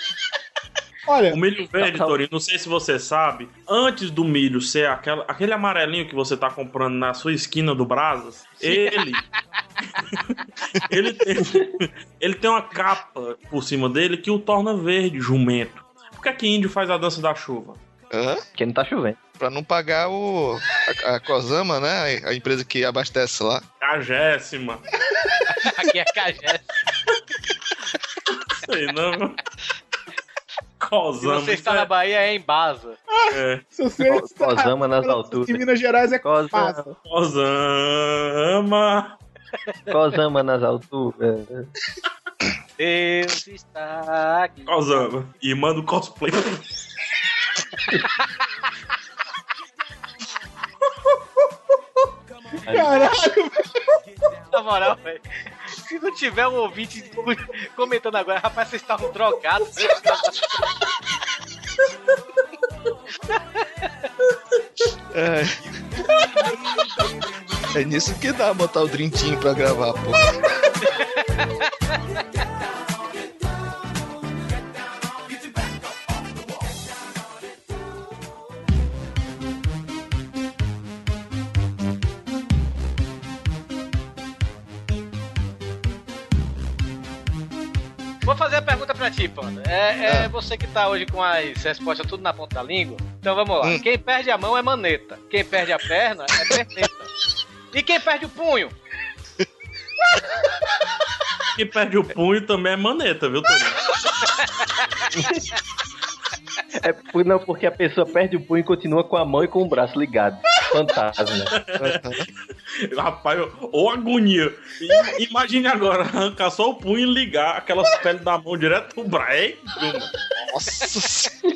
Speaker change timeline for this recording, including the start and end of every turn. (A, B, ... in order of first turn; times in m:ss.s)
0:01.1-0:01.4 A
0:01.3-0:09.3 B
0:01.8-0:02.2 C
0:10.1-0:17.8 B
0:11.4-0:11.7 C
0:18.1-0:18.4 D
0:18.6-0:19.2 C
0:19.3-0:23.6 D
0:23.8-0:24.8 B
0:25.5-0:26.7 E
0:28.5-0:29.4 B
0:30.8-0:31.9 B
0:31.2-0:33.0 E
0:33.1-0:36.9 A
0:33.3-0:33.6 B
0:34.0-0:35.6 C
0:36.2-0:36.9 C
0:37.0-0:39.2 B
0:39.9-0:41.7 C
0:42.8-0:45.1 E
0:44.7-0:46.6 B
0:52.6-0:53.1 C
0:52.7-0:53.8 A
0:54.5-1:00.6 E
1:05.1-1:05.7 D
1:07.7-1:10.3 D
1:28.2-1:37.1 E
1:37.7-1:38.7 E
1:41.6-1:43.8 B
1:46.8-1:51.6 C
1:51.5-1:52.3 B
1:51.8-1:52.3 D
1:52.8-2:00.1 B
2:00.5-2:01.3 D